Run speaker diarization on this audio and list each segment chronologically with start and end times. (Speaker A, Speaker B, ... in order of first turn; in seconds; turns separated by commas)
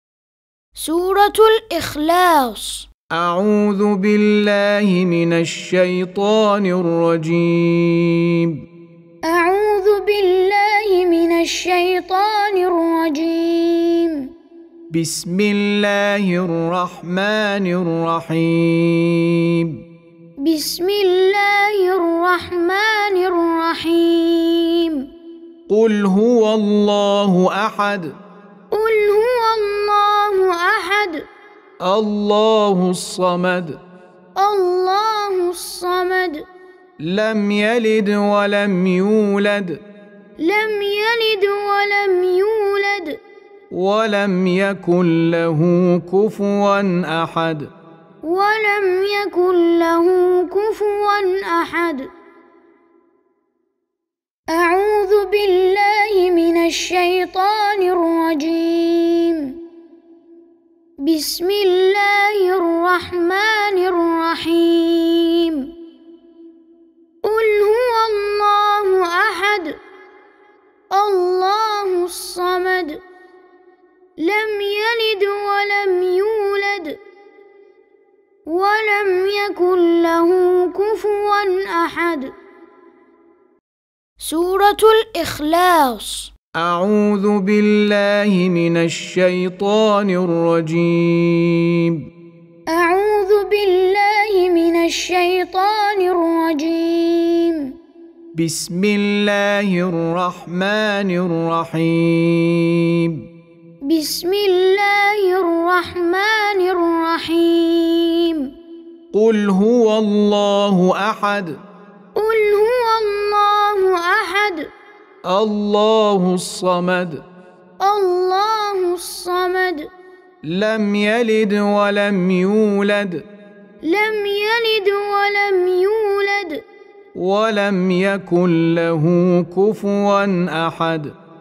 Speaker A: 0.7-2.9, Speaker B: 3.1-8.6, Speaker A: 9.2-14.3, Speaker B: 14.9-19.8, Speaker A: 20.4-25.1, Speaker B: 25.7-28.2, Speaker A: 28.7-31.3, Speaker B: 31.8-33.8, Speaker A: 34.4-36.5, Speaker B: 37.0-39.8, Speaker A: 40.4-43.2, Speaker B: 43.7-47.7, Speaker A: 48.2-52.1, Speaker A: 54.5-59.6, Speaker A: 61.0-65.7, Speaker A: 67.2-69.8, Speaker A: 70.9-73.0, Speaker A: 74.2-77.0, Speaker A: 78.5-82.3, Speaker A: 84.2-86.3, Speaker B: 86.5-92.1, Speaker A: 92.7-97.7, Speaker B: 98.3-103.2, Speaker A: 103.8-108.5, Speaker B: 109.1-111.6, Speaker A: 112.1-114.7, Speaker B: 115.2-117.2, Speaker A: 117.8-119.9, Speaker B: 120.4-123.2, Speaker A: 123.8-126.6, Speaker B: 127.2-131.1